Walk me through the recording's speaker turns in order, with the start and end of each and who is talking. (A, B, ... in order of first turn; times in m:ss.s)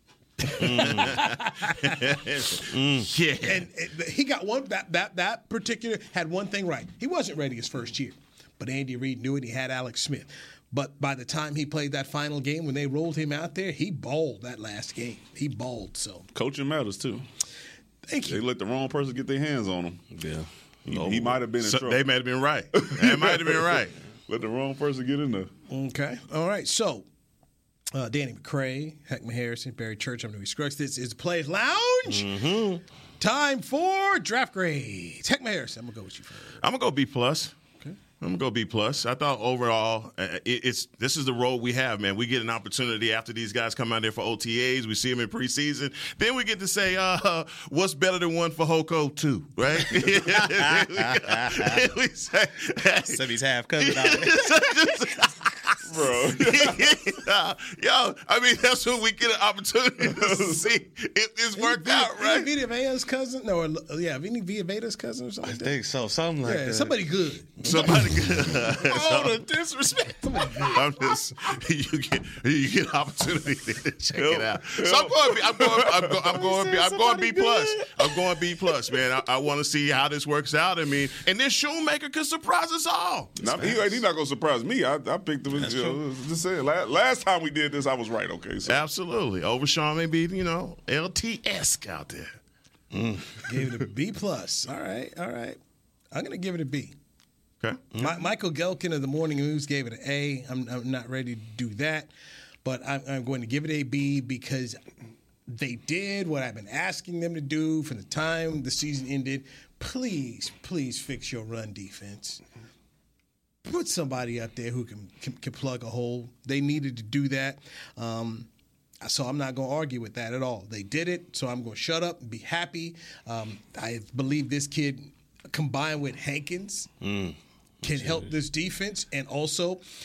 0:00.4-0:02.1 A
0:00.4-0:03.7 B
0:00.5-0:01.2 C
0:02.7-0:03.1 C
0:03.5-0:16.2 A
0:16.3-0:17.2 D
0:18.1-0:18.4 A
0:18.3-0:20.0 D
0:20.1-0:21.5 C
0:20.9-0:22.0 D
0:21.6-0:23.9 B
0:22.8-0:25.5 D
0:25.7-0:27.1 A
0:27.9-0:32.3 A
0:32.1-0:32.8 C
0:33.2-0:36.6 A
0:36.6-0:37.5 B
0:38.2-0:53.2 B
0:49.9-0:51.9 C
0:53.0-0:54.9 C
0:53.8-1:02.5 B
0:55.8-0:57.0 D
1:00.0-1:00.7 D
1:01.6-1:05.8 A
1:05.4-1:07.1 C
1:06.4-1:07.7 A
1:07.6-1:23.4 B
1:07.7-1:07.9 C
1:08.8-1:09.4 C
1:10.2-1:10.7 A
1:14.1-1:16.4 D
1:16.3-1:17.9 C
1:23.4-1:24.0 C
1:23.4-1:28.8 D
1:25.5-1:26.0 C
1:28.7-1:32.4 B
1:32.9-1:33.4 C
1:33.4-1:35.6 A
1:36.1-1:37.0 A
1:37.9-1:38.2 C
1:38.0-1:42.1 A
1:42.6-1:44.8 A
1:45.5-1:52.4 A
1:53.6-1:58.5 A
1:59.0-2:06.9 A
2:07.0-2:08.3 C
2:07.8-2:09.8 A